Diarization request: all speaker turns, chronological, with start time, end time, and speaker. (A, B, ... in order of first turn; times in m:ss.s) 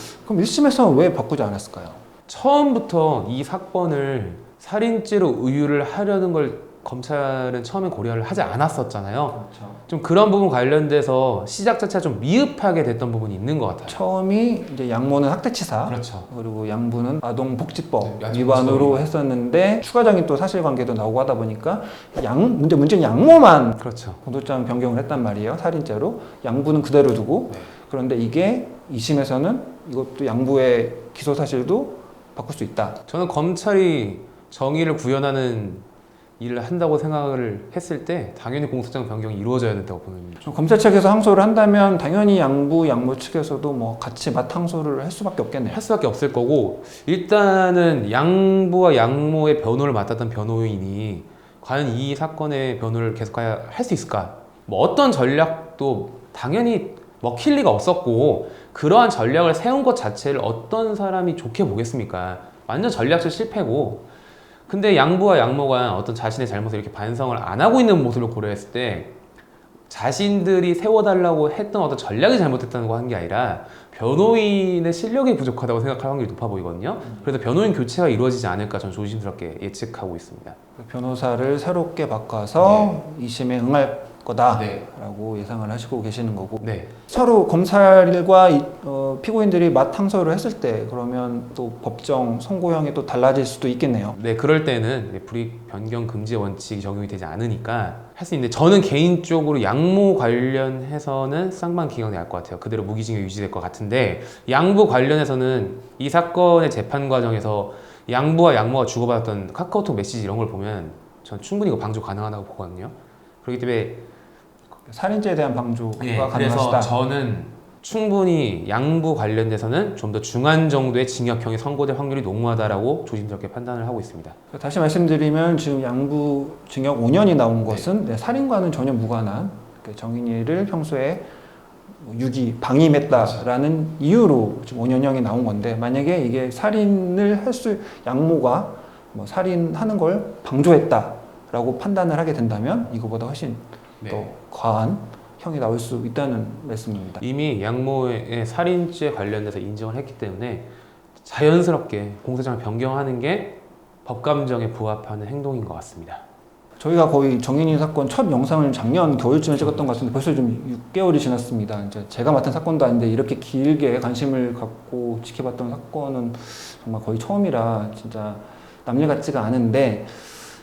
0:00.2-0:02.0 A
0:02.3-0:14.0 B
0:09.3-0:09.8 A
0:13.9-0:33.0 A
0:15.9-0:16.3 B
0:18.0-0:19.0 B
0:23.8-0:24.2 B
0:33.1-0:35.8 B
0:36.4-0:40.4 B
0:40.4-0:45.8 A
0:45.7-1:04.0 B
1:04.7-1:09.1 B
1:09.9-1:20.6 B
1:20.8-1:34.2 A
1:22.6-1:23.0 B
1:24.5-1:24.8 B
1:26.6-1:26.9 B
1:34.1-1:54.0 B
1:54.9-1:56.9 A
1:56.0-2:04.4 B
2:04.5-2:11.2 A
2:12.0-2:27.2 A
2:24.0-2:24.3 B
2:27.2-2:30.7 B
2:31.2-2:36.2 B
2:36.8-2:50.2 A